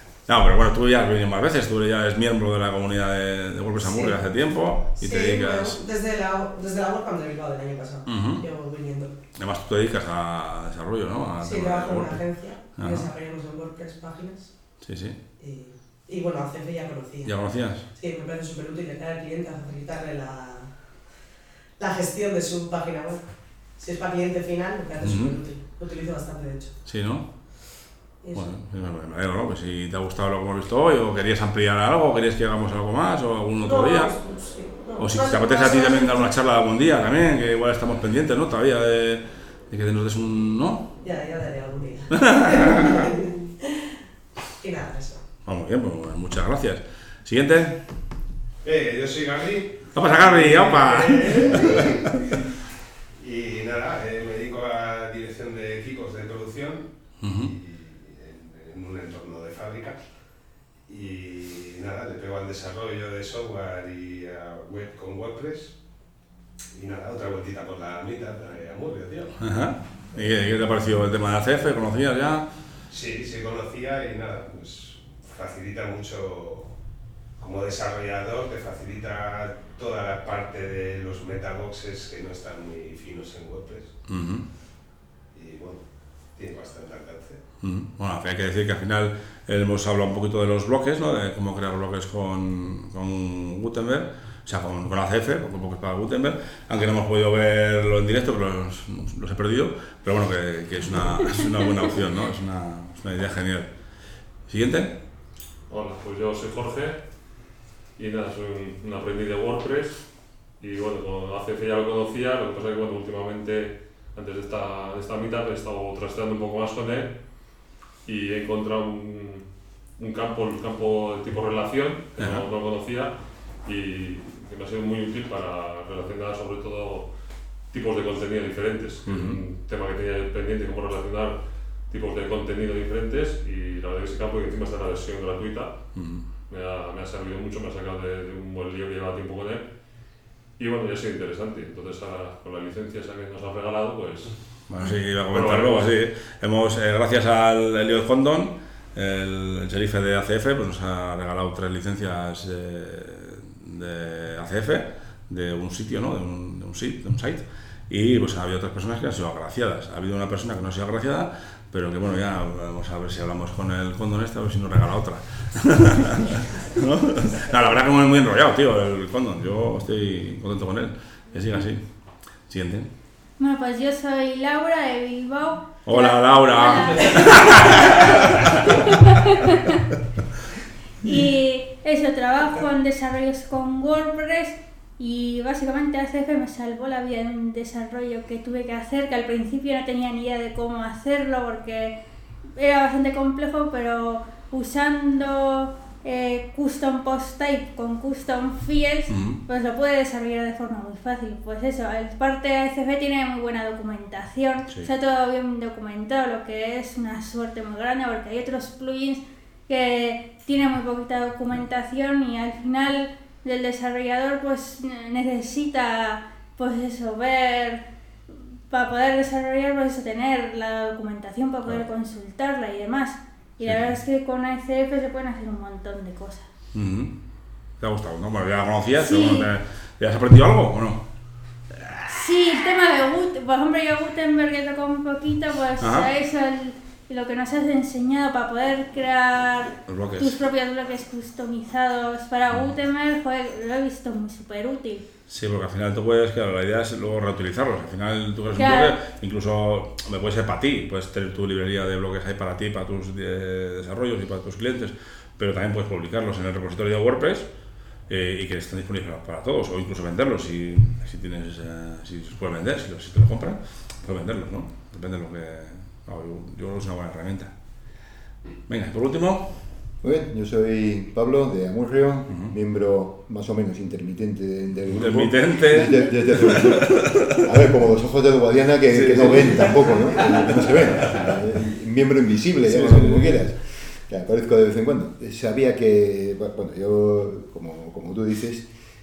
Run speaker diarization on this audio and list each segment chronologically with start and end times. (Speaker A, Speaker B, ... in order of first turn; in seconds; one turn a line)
Speaker A: 0.3-5.8
Speaker B: 3.8-4.1
Speaker B: 5.0-9.1
Speaker A: 8.1-8.5
Speaker A: 9.4-13.1
Speaker B: 11.4-14.5
Speaker A: 14.8-15.2
Speaker B: 15.4-17.3
Speaker A: 17.2-17.8
Speaker B: 17.9-20.7
Speaker B: 21.8-26.7
Speaker A: 25.0-25.4
Speaker A: 26.8-27.3
Speaker B: 28.2-28.5
Speaker A: 28.3-34.2
Speaker B: 33.6-36.3
Speaker A: 35.0-40.9
Speaker B: 41.0-43.9
Speaker A: 42.1-43.0
Speaker B: 44.6-45.2
Speaker A: 45.4-47.8
Speaker C: 48.6-51.8
Speaker A: 49.9-51.9
Speaker C: 53.2-60.0
Speaker A: 57.2-57.5
Speaker C: 60.9-65.8
Speaker C: 66.7-69.3
Speaker A: 69.4-72.5
Speaker C: 72.9-76.7
Speaker C: 77.4-83.9
Speaker A: 84.1-84.4
Speaker C: 85.3-87.4
Speaker A: 87.6-103.7
Speaker A: 104.5-104.9
Speaker D: 105.7-107.0
Speaker D: 108.0-110.0
Speaker D: 110.6-117.1
Speaker D: 118.0-119.5
Speaker D: 120.0-127.1
Speaker A: 122.2-122.5
Speaker D: 127.7-135.7
Speaker A: 129.0-129.4
Speaker A: 135.9-136.2
Speaker D: 136.5-139.7
Speaker D: 140.6-144.3
Speaker A: 144.7-171.8
Speaker D: 145.3-145.9
Speaker A: 172.5-172.9
Speaker E: 173.4-179.8
Speaker A: 175.8-178.7
Speaker E: 181.0-191.9
Speaker E: 192.6-226.4
Speaker A: 199.1-199.4
Speaker A: 223.6-223.9
Speaker A: 226.7-227.1
Speaker A: 227.8-231.0
Speaker E: 228.9-229.5
Speaker A: 231.7-232.1
Speaker E: 232.1-245.0
Speaker A: 235.8-236.1
Speaker A: 239.9-240.4
Speaker A: 242.5-242.7
Speaker A: 245.3-257.5
Speaker E: 248.5-249.0
Speaker A: 258.1-267.5
Speaker A: 268.7-269.5
Speaker F: 270.0-288.7
Speaker A: 274.9-277.4
Speaker A: 278.9-281.3
Speaker A: 282.6-283.4